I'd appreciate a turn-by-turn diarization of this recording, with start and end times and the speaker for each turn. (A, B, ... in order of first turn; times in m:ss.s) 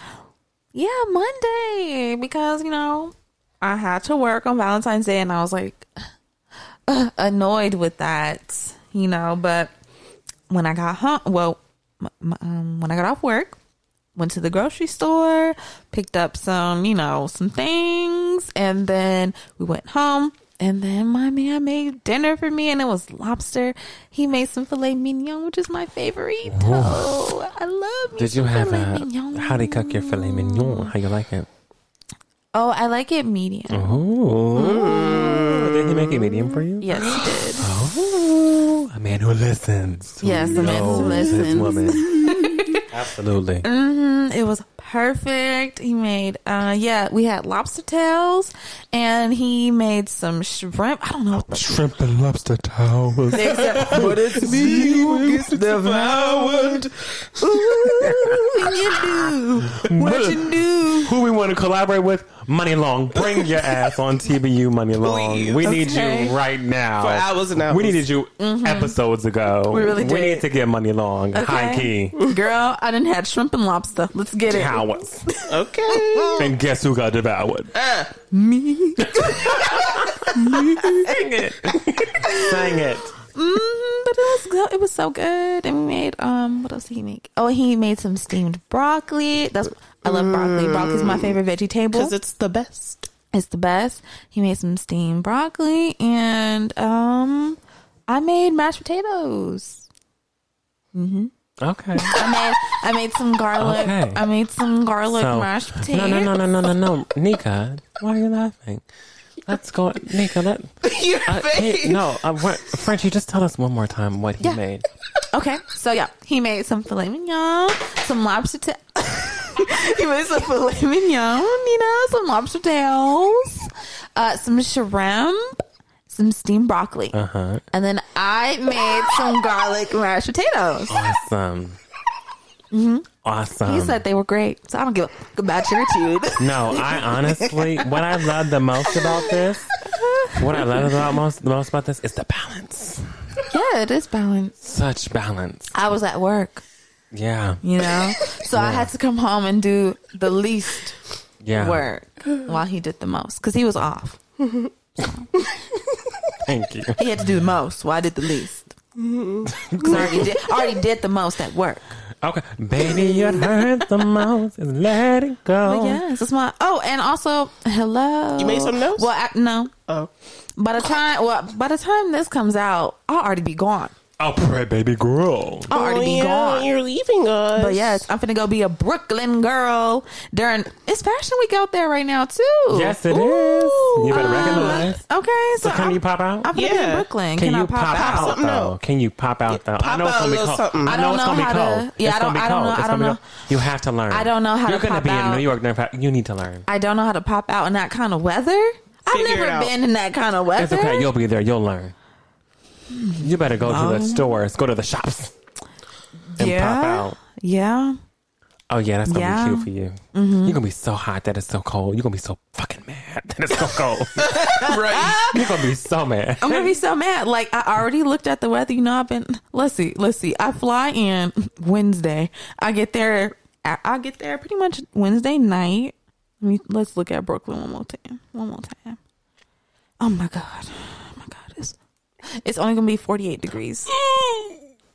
0:00.7-0:05.9 A
0:06.9-0:09.7 A
0:10.5-0:13.6 A
0:14.2-0:30.9 A
0:26.5-0:27.1 B
0:28.2-0:31.5 B
0:32.5-0:34.0 A
0:33.7-0:42.1 B
0:34.6-0:36.6 C
0:36.8-0:37.7 A
0:40.2-0:42.8 A
0:40.6-0:42.4 C
0:42.9-0:43.6 B
0:43.6-0:51.8 A
0:51.4-0:55.5 B
0:53.3-1:01.2 A
0:53.5-0:58.1 C
0:59.7-1:12.2 B
1:05.0-1:06.3 C
1:05.7-1:05.9 A
1:07.0-1:08.1 C
1:08.4-1:09.0 A
1:09.7-1:10.4 A
1:11.3-1:16.4 A
1:14.5-1:15.3 B
1:15.4-1:16.5 C
1:16.4-1:17.7 B
1:17.7-1:18.1 C
1:18.3-1:21.2 A
1:19.0-1:23.1 B
1:22.2-1:22.5 A
1:23.4-1:32.2 A
1:30.0-1:31.4 C
1:31.9-1:33.1 C
1:33.3-1:39.9 A
1:40.9-1:41.3 A
1:41.6-1:42.2 B
1:42.0-1:46.4 A
1:43.6-1:44.2 B
1:45.1-1:48.8 B
1:49.5-1:54.9 B
1:50.8-1:52.2 C
1:55.3-2:07.2 A
2:07.1-2:07.6 B
2:07.7-2:11.0 A
2:10.9-2:11.8 B
2:12.7-2:13.1 A
2:13.2-2:14.0 B
2:13.6-2:17.9 A
2:16.4-2:19.7 B
2:18.9-2:19.2 A
2:19.9-2:20.8 A
2:20.4-2:23.1 B
2:23.5-2:24.6 A
2:24.6-2:25.7 B
2:25.7-2:26.6 A
2:27.1-2:27.6 B
2:27.6-2:31.0 A
2:28.5-2:28.9 B
2:31.4-2:31.9 B
2:31.5-2:34.2 A
2:34.4-2:34.7 C
2:36.4-2:37.0 B
2:37.0-2:38.7 A
2:39.0-2:40.3 C
2:39.6-2:40.3 B
2:39.8-2:41.9 A
2:42.2-2:46.0 B
2:43.0-2:43.5 C
2:45.6-2:49.7 A
2:48.4-2:49.1 C
2:50.6-2:53.9 A
2:54.2-2:55.7 B
2:55.7-2:58.1 C
2:55.7-2:56.7 A
2:57.6-3:03.0 A
3:02.7-3:05.0 B
3:03.1-3:04.9 C
3:04.1-3:08.4 A
3:05.6-3:06.5 B
3:06.5-3:07.1 C
3:07.4-3:16.7 B
3:07.9-3:08.8 C
3:09.5-3:11.0 C
3:10.9-3:13.2 A
3:14.1-3:15.5 A
3:16.7-3:21.1 A
3:19.1-3:19.7 C
3:20.6-3:21.9 B
3:22.9-3:24.3 A
3:23.2-3:25.3 B
3:26.3-3:28.0 A
3:26.4-3:27.2 B
3:28.7-3:36.8 B
3:29.1-3:30.6 A
3:34.2-3:35.4 C
3:34.6-3:35.3 A
3:36.4-3:49.0 A
3:50.0-3:51.8 A
3:52.3-3:53.9 A
3:53.9-3:54.6 B